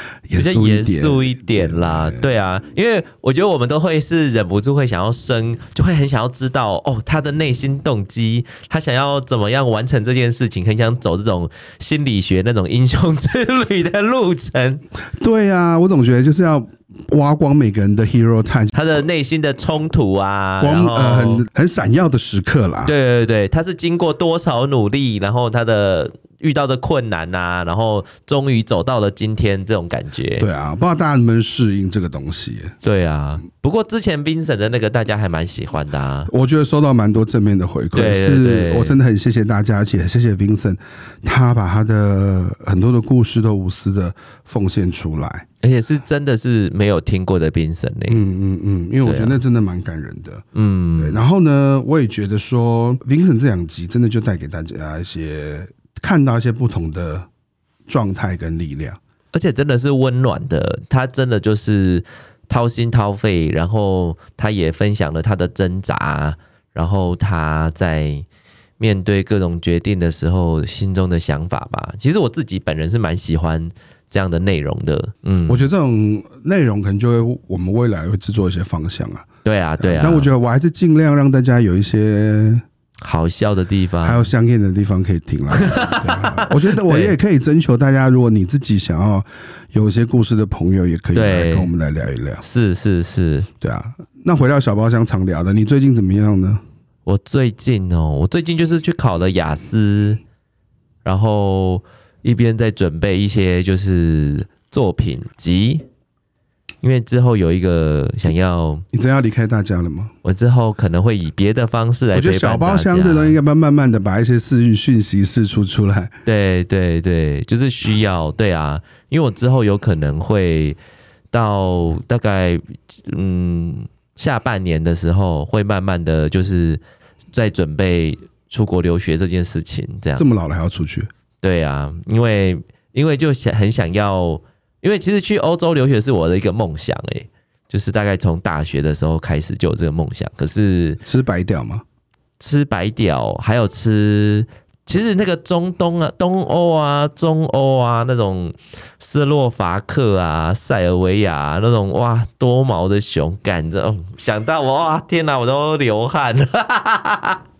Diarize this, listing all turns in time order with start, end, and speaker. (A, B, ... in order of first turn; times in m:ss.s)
0:00.3-0:02.3 A
0:00.4-0:14.8 B
0:15.2-0:19.0 A
0:18.7-0:21.4 B
0:20.6-0:22.9 A
0:22.8-0:30.5 B
0:30.4-0:32.7 A
0:32.8-0:36.3 B
0:36.3-0:45.4 A
0:37.9-0:39.0 B
0:45.6-0:48.2 B
0:48.1-0:50.4 A
0:49.0-0:49.4 B
0:50.5-0:51.2 B
0:51.0-0:57.3 A
0:57.9-0:59.0 A
0:59.3-1:08.2 B
1:08.8-1:15.6 B
1:15.5-1:19.2 A
1:19.4-1:20.3 B
1:19.8-1:22.6 A
1:23.0-1:24.2 B
1:24.0-1:32.4 A
1:25.6-1:27.1 B
1:31.1-1:31.7 B
1:32.4-1:33.5 B
1:33.6-1:36.6 A
1:37.0-1:40.2 B
1:41.0-1:45.8 B
1:46.8-1:48.8 B
1:48.9-1:50.1 A
1:50.2-1:53.4 B
1:52.1-1:56.1 A
1:56.2-2:00.8 B
2:01.3-2:06.8 B
2:07.3-2:10.2 B
2:10.2-2:11.1 A
2:11.4-2:21.0 B
2:21.0-2:21.8 A
2:22.4-2:37.4 B